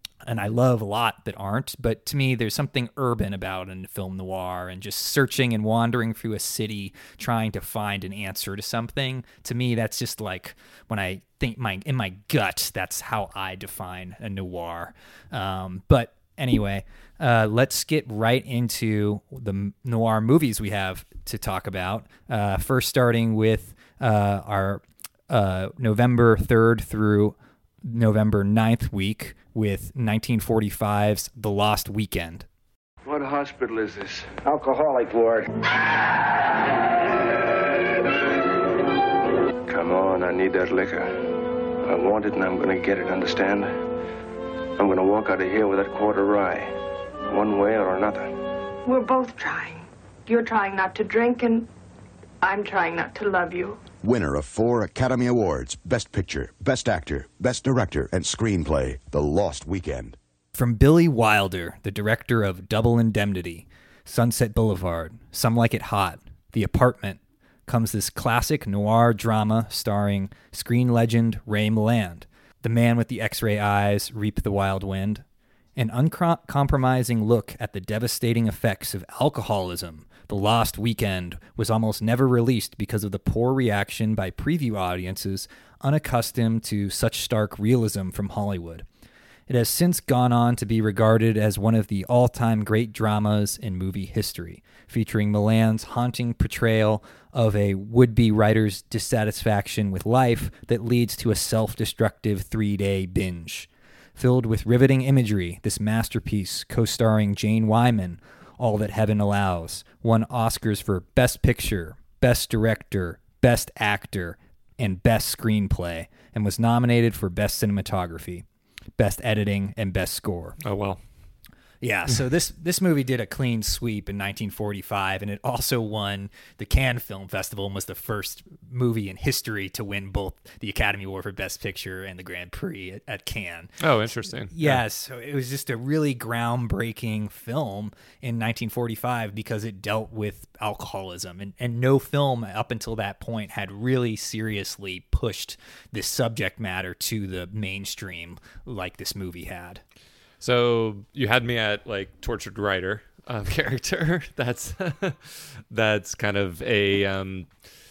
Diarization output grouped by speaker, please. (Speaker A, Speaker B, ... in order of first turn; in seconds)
Speaker A: 0.2-32.5, 60.5-75.2, 75.8-88.8, 89.5-118.4, 119.0-120.6, 121.8-133.8, 134.4-149.8
Speaker B: 33.0-35.4, 39.7-41.1, 41.8-43.7, 44.8-46.7, 47.3-48.3
Speaker C: 48.8-51.7, 52.4-53.8
Speaker D: 54.0-60.2
Speaker E: 120.6-121.0, 133.8-134.8, 150.4-157.5